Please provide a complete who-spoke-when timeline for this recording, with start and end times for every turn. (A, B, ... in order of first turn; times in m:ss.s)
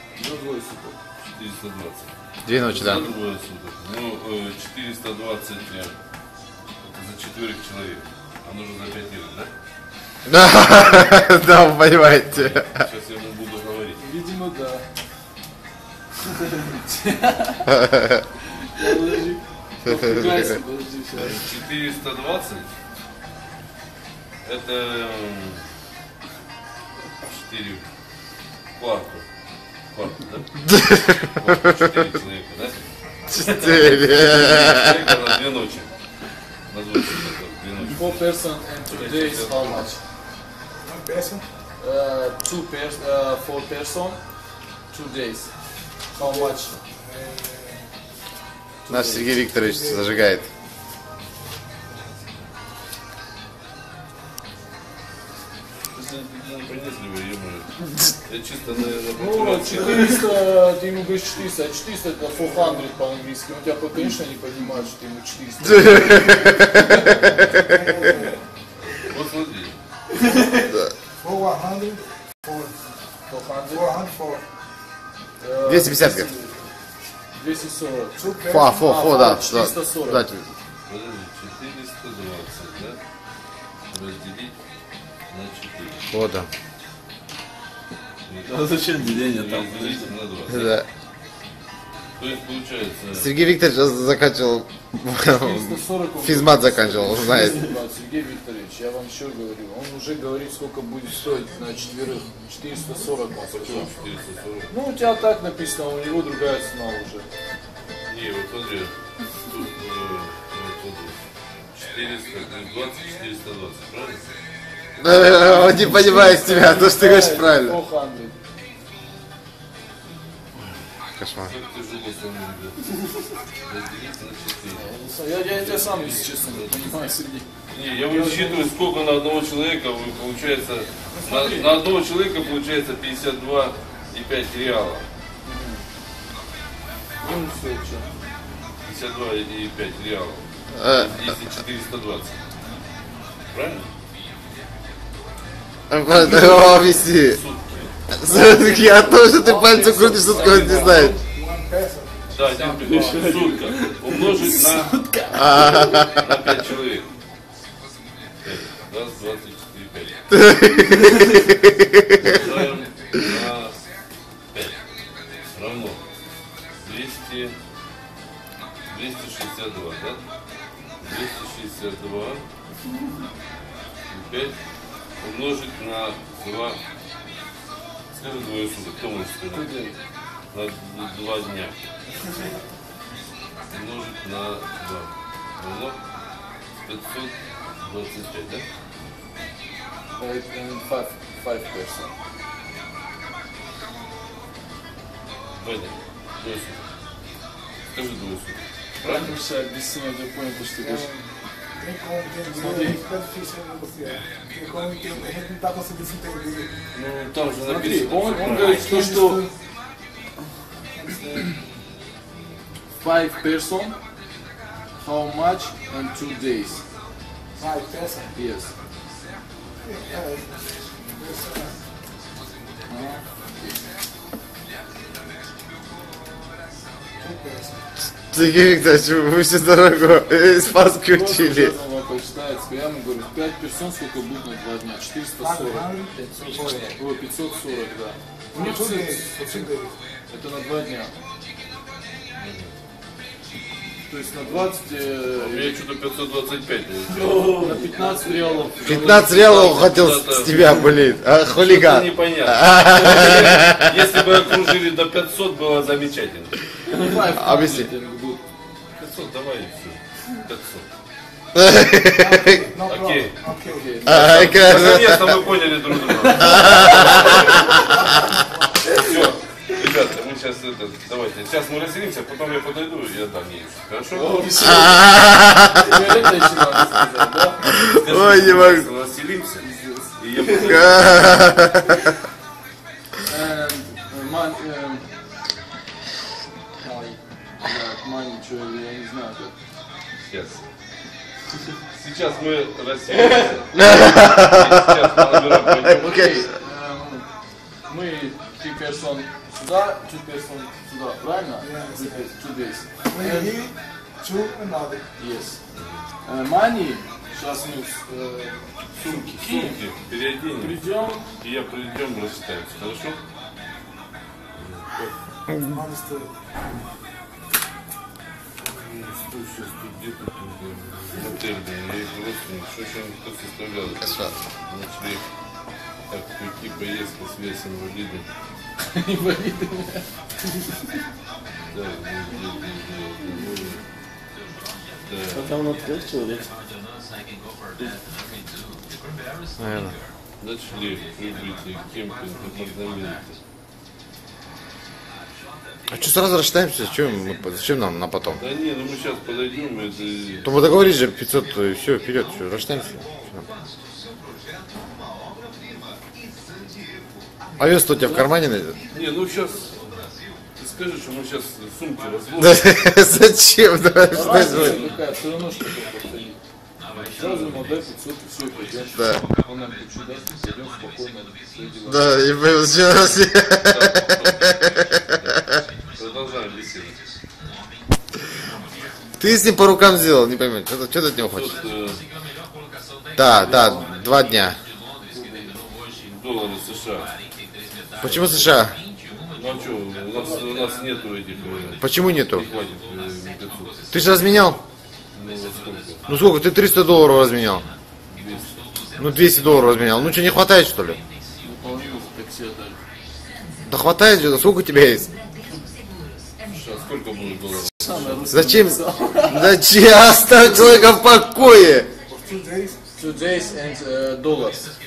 0:00.2-0:01.0 A
0:01.2-0:02.1 B
0:02.4-0:03.1 C
0:02.7-0:05.9 B
0:06.8-0:09.5 B
0:10.3-0:12.8 C
0:12.3-0:14.0 B
0:14.0-0:14.8 A
0:16.3-0:17.8 A
0:17.7-0:18.2 C
0:18.5-0:21.5 A
0:19.8-0:20.6 C
0:21.2-0:22.7 B
0:24.4-0:25.6 B
0:27.2-0:27.8 B
0:28.8-0:29.3 B
0:29.9-0:35.9 B
0:30.6-0:31.9 C
0:33.3-0:35.2 C
0:36.7-0:39.9 B
0:37.9-0:40.0 A
0:40.8-0:41.4 D
0:41.8-0:44.3 A
0:44.9-0:46.8 A
0:46.1-0:47.9 D
0:48.9-0:49.3 A
0:48.9-0:50.5 C
0:49.6-0:50.1 D
0:55.9-1:00.2 B
0:59.1-1:07.4 A
1:05.6-1:07.7 C
1:07.3-1:08.4 D
1:08.8-1:09.8 B
1:11.2-1:12.8 D
1:13.3-1:13.9 A
1:13.7-1:14.4 D
1:15.4-1:16.7 A
1:15.6-1:16.3 C
1:17.3-1:20.3 A
1:18.2-1:18.7 D
1:18.4-1:20.5 C
1:20.9-1:23.0 B
1:23.9-1:24.6 B
1:25.3-1:26.1 B
1:26.1-1:26.5 C
1:28.3-1:30.8 B
1:28.4-1:30.1 E
1:30.5-1:30.9 C
1:32.2-1:33.3 B
1:33.1-1:37.6 C
1:35.4-1:43.9 A
1:43.5-1:44.7 B
1:44.7-1:47.3 A
1:48.1-1:54.3 B
1:55.0-1:57.8 C
1:55.2-1:58.4 A
2:01.2-2:01.5 C
2:01.4-2:02.9 B
2:03.6-2:04.9 B
2:04.7-2:07.5 A
2:05.5-2:07.0 B
2:07.7-2:15.1 B
2:08.1-2:08.7 A
2:11.1-2:11.7 A
2:15.4-2:15.8 A
2:17.2-2:18.1 A
2:18.8-2:22.4 B
2:20.7-2:21.3 C
2:23.5-2:23.9 B
2:25.9-2:27.4 C
2:26.4-2:28.0 B
2:28.1-2:31.2 C
2:28.3-2:31.2 A
2:29.9-2:31.1 B
2:31.2-2:32.2 D
2:32.3-2:37.1 B
2:32.5-2:33.1 A
2:32.7-2:35.5 E
2:35.3-2:36.3 C
2:38.4-2:40.4 B
2:40.3-2:42.4 C
2:42.2-2:43.8 B
2:44.5-2:44.8 B
2:45.5-2:46.0 B
2:46.8-2:47.6 B
2:48.9-2:50.2 B
2:51.0-2:52.4 B
2:54.1-2:54.6 B
2:55.2-2:56.8 B
2:58.1-2:59.7 B
2:59.5-3:00.0 A
3:00.5-3:01.9 B
3:03.7-3:06.0 B
3:06.8-3:08.6 B
3:10.2-3:12.1 A
3:15.6-3:16.9 B
3:17.9-3:19.4 B
3:19.0-3:21.1 A
3:20.8-3:21.2 D
3:21.8-3:26.7 D
3:22.5-3:23.0 A
3:26.9-3:28.9 B
3:27.6-3:29.4 A
3:28.4-3:29.5 D
3:30.9-3:31.6 D
3:33.0-3:34.0 A
3:35.0-3:36.8 A
3:37.6-3:38.3 D
3:38.3-3:38.7 A
3:39.8-3:41.8 D
3:42.9-3:43.8 A
3:47.2-3:47.8 D
3:48.2-3:51.8 C
3:51.1-3:59.7 A
3:55.4-3:57.0 D
3:58.5-4:00.0 D
4:00.3-4:01.1 A
4:02.4-4:02.7 B
4:04.1-4:05.8 A
4:05.4-4:07.7 B
4:07.1-4:08.8 E
4:07.5-4:09.3 A
4:08.8-4:10.8 B
4:08.8-4:14.0 C
4:11.6-4:16.6 B
4:16.9-4:18.4 A
4:17.2-4:17.9 C
4:18.9-4:20.9 B
4:21.5-4:22.6 C
4:22.2-4:24.0 D
4:22.9-4:23.4 B
4:23.7-4:24.9 A
4:24.1-4:25.4 C
4:24.1-4:27.7 B
4:25.9-4:27.8 A
4:26.4-4:27.8 C
4:27.2-4:28.9 D
4:28.9-4:29.2 A
4:28.9-4:34.4 B
4:34.1-4:35.2 A
4:34.6-4:36.1 C
4:35.7-4:37.8 A
4:37.6-4:38.9 C
4:37.9-4:41.4 B
4:39.6-4:40.8 A
4:40.6-4:42.1 C
4:43.2-4:45.1 A
4:46.8-4:49.5 A
4:50.3-4:50.6 B
4:51.9-4:56.3 B
4:53.8-4:54.9 C
4:55.8-4:56.4 C
4:55.9-4:57.3 A
4:57.9-5:03.5 A
5:01.6-5:02.3 D
5:03.1-5:05.0 D
5:05.2-5:05.6 A
5:05.7-5:06.0 B
5:06.2-5:09.8 A
5:09.0-5:13.2 B
5:10.6-5:11.3 A
5:14.5-5:15.1 B
5:15.5-5:15.8 C
5:15.7-5:16.3 D
5:18.6-5:25.2 B
5:24.0-5:24.3 C
5:26.1-5:28.3 B
5:28.8-5:30.1 A
5:31.7-5:33.8 B
5:35.0-5:35.6 B
5:35.3-5:36.5 E
5:39.6-5:40.0 C
5:40.4-5:43.4 B
5:45.9-5:48.4 C
5:48.4-5:50.8 B
5:50.4-5:53.5 C
5:57.6-5:58.8 C
5:58.0-5:58.3 A
5:58.9-6:00.0 B
6:00.6-6:02.8 B
6:02.4-6:04.9 C
6:04.1-6:06.4 A
6:04.2-6:04.9 B
6:06.9-6:07.7 B
6:07.1-6:12.2 A
6:08.9-6:09.2 C
6:11.8-6:15.6 C
6:13.7-6:14.5 B
6:15.9-6:17.0 B
6:19.2-6:21.6 C
6:21.2-6:22.0 B
6:23.2-6:24.6 C
6:23.4-6:23.9 A
6:23.4-6:23.9 B
6:25.1-6:25.6 A
6:26.0-6:27.2 B
6:27.9-6:28.6 B
6:28.0-6:28.8 C
6:29.3-6:34.2 B
6:30.1-6:30.8 A
6:31.8-6:32.5 C
6:33.9-6:34.6 C
6:35.1-6:36.0 B
6:36.1-6:37.7 C
6:38.1-6:38.7 B
6:39.0-6:41.0 C
6:41.4-6:42.8 A
6:43.7-6:45.1 C
6:46.5-6:48.3 B
6:47.5-6:49.6 A
6:48.3-6:51.9 C
6:52.1-6:52.8 D
6:53.0-6:54.7 A